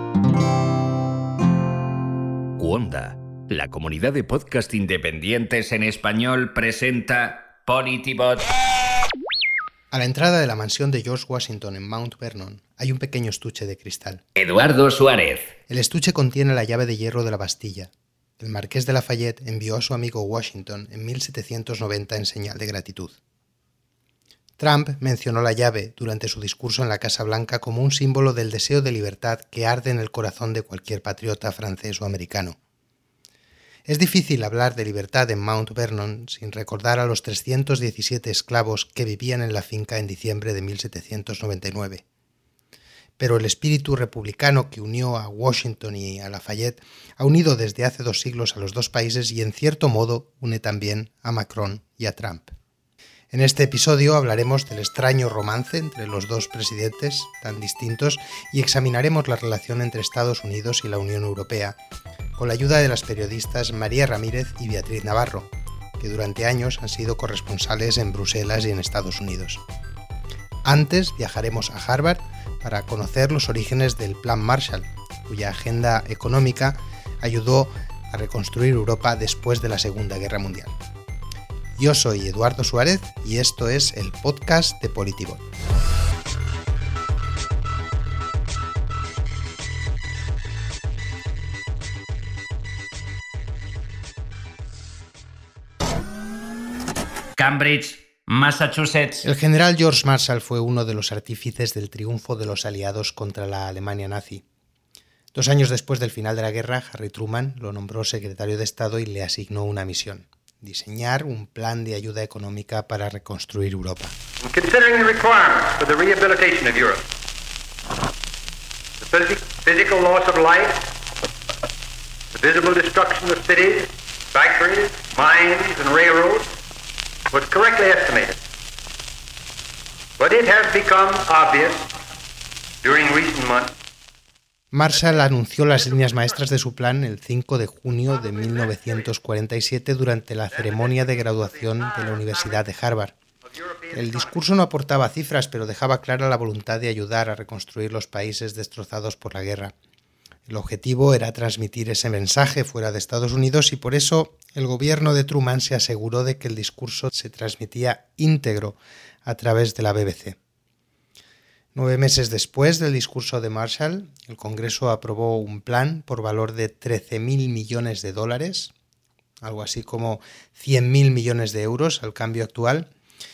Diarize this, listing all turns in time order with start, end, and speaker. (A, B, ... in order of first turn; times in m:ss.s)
0:02.6-0:08.5 A
0:09.9-0:14.2 B
0:14.4-0:15.5 A
0:15.7-0:23.1 B
0:24.6-0:32.6 B
0:33.8-0:42.0 B
0:43.2-0:52.5 B
0:53.3-1:01.8 B
1:02.4-1:09.6 B
1:10.6-1:20.7 B
1:21.8-1:25.4 B
1:37.4-1:39.3 A
1:39.2-1:44.4 B
1:45.3-1:54.2 B
1:54.4-1:57.0 C
1:59.0-2:00.9 C
2:02.3-2:06.5 C
2:07.3-2:08.4 C
2:10.2-2:11.9 C
2:12.8-2:13.7 C
2:14.7-2:23.1 B
2:20.5-2:20.9 C
2:22.0-2:22.5 C
2:23.6-2:24.3 C
2:23.9-2:29.7 B
2:30.5-2:40.4 B
2:41.7-2:48.7 B
2:49.4-2:52.9 B